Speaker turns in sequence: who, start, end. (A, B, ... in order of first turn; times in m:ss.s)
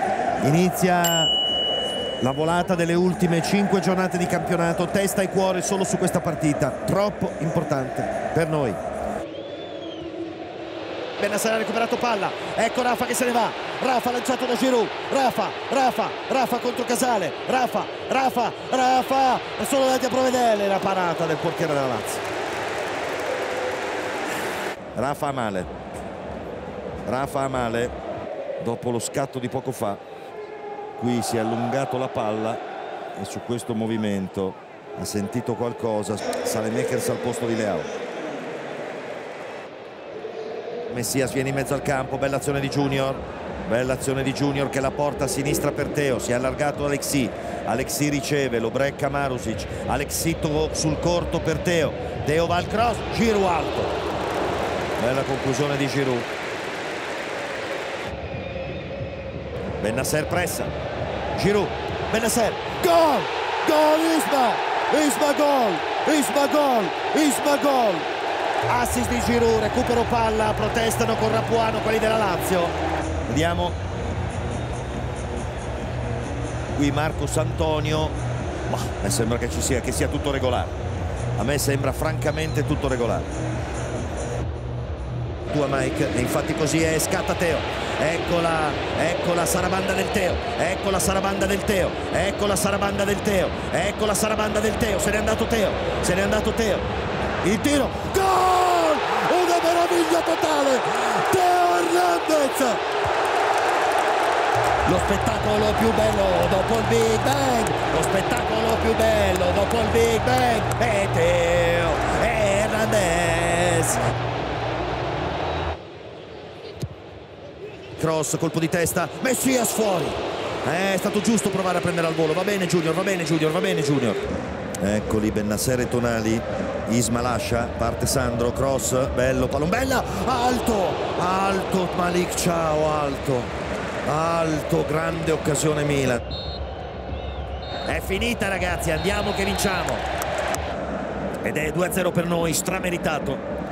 0:00.4-0:01.3 A
0:02.2-0:08.8 A
0:11.2-0:22.2 A
0:25.0-0:25.7 A
0:27.0-0:28.0 A
0:28.6-0:30.0 A
0:31.0-0:32.6 A
0:33.2-0:37.9 A
0:40.9-0:53.9 A
0:55.0-0:56.3 A
0:59.8-1:00.7 A
1:01.4-1:08.1 A
1:08.6-1:12.7 A
1:13.2-1:13.8 A
1:16.7-1:18.2 A
1:18.7-1:20.7 A
1:21.4-1:23.3 A
1:25.5-1:36.8 A
1:37.4-1:42.8 A
1:44.8-1:54.0 A
1:58.0-2:04.2 A
2:04.8-2:13.5 A
2:14.0-2:16.2 A
2:17.9-2:20.0 A
2:21.4-2:23.4 A